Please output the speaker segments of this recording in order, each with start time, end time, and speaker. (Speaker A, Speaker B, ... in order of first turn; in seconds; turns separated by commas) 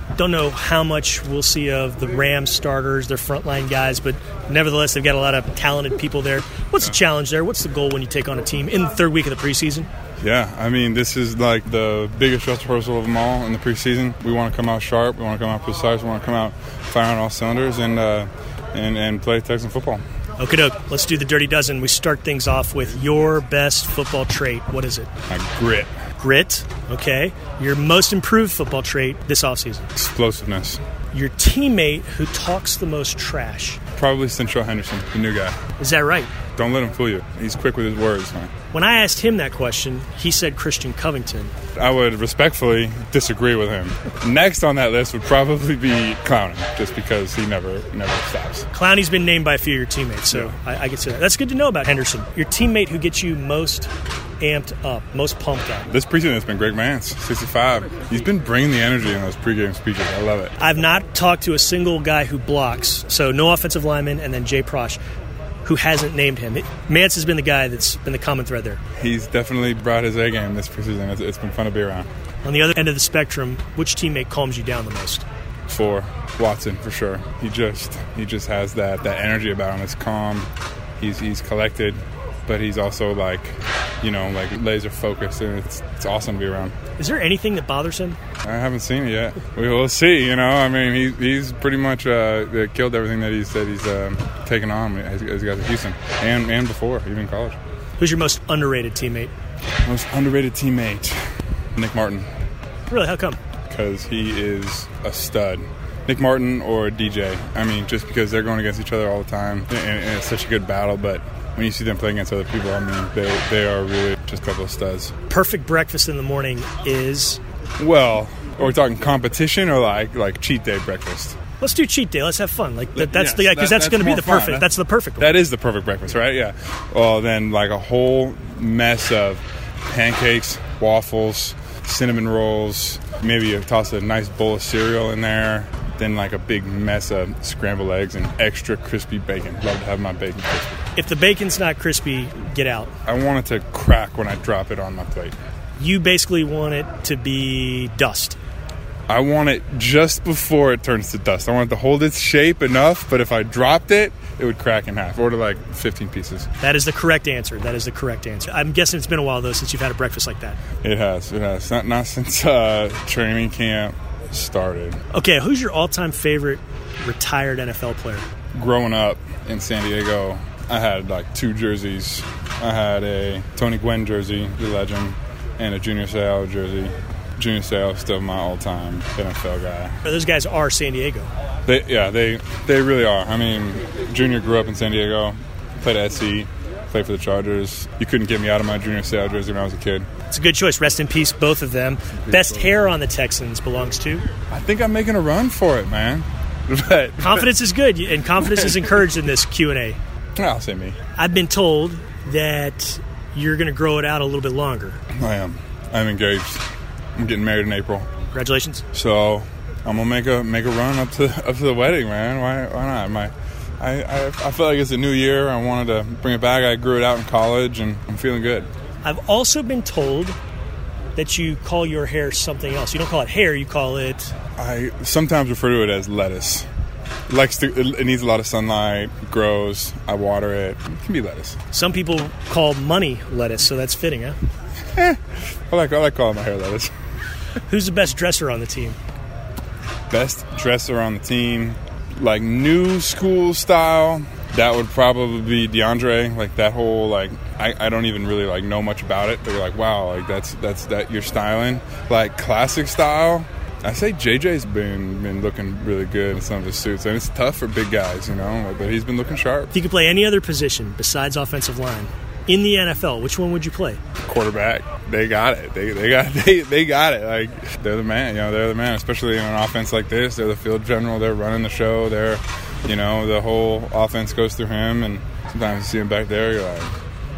Speaker A: 0.1-9.9, Speaker B: 10.2-20.0, Speaker A: 20.4-25.1, Speaker B: 25.3-25.9, Speaker A: 26.2-29.9, Speaker B: 29.9-30.8, Speaker A: 31.1-33.8, Speaker B: 34.0-35.6, Speaker A: 35.8-36.3, Speaker B: 36.5-38.5, Speaker A: 38.7-41.5, Speaker B: 41.8-48.7, Speaker A: 48.7-53.9, Speaker A: 54.4-55.9, Speaker B: 55.9-60.5, Speaker A: 60.6-65.0, Speaker A: 65.6-68.8, Speaker B: 69.0-72.1, Speaker A: 72.4-75.2, Speaker B: 75.7-86.7, Speaker A: 87.0-88.2, Speaker B: 88.4-97.6, Speaker A: 98.0-99.3, Speaker B: 99.8-102.3, Speaker A: 102.9-103.4, Speaker B: 103.7-115.1, Speaker A: 115.3-117.4, Speaker B: 117.8-121.4, Speaker A: 121.6-125.3, Speaker B: 122.9-124.7, Speaker B: 125.2-140.8, Speaker A: 140.9-142.9, Speaker B: 143.1-145.3, Speaker A: 145.8-148.4, Speaker B: 149.1-156.5, Speaker A: 156.6-160.6, Speaker B: 160.8-165.0, Speaker A: 165.1-168.2, Speaker B: 168.5-180.0, Speaker A: 180.0-181.3, Speaker B: 181.7-190.1, Speaker A: 190.3-194.2, Speaker B: 192.2-192.7, Speaker B: 194.5-197.5, Speaker A: 197.2-200.0, Speaker B: 200.3-201.0, Speaker A: 201.2-205.0, Speaker B: 205.2-206.6, Speaker B: 207.2-208.1, Speaker A: 208.3-208.8, Speaker B: 208.9-218.7, Speaker A: 219.0-220.4, Speaker A: 221.2-224.3, Speaker B: 224.6-226.7, Speaker B: 227.3-231.6, Speaker A: 231.7-234.4, Speaker B: 234.9-236.9, Speaker A: 237.7-239.0, Speaker B: 240.1-259.7, Speaker A: 259.7-264.0, Speaker B: 264.2-276.9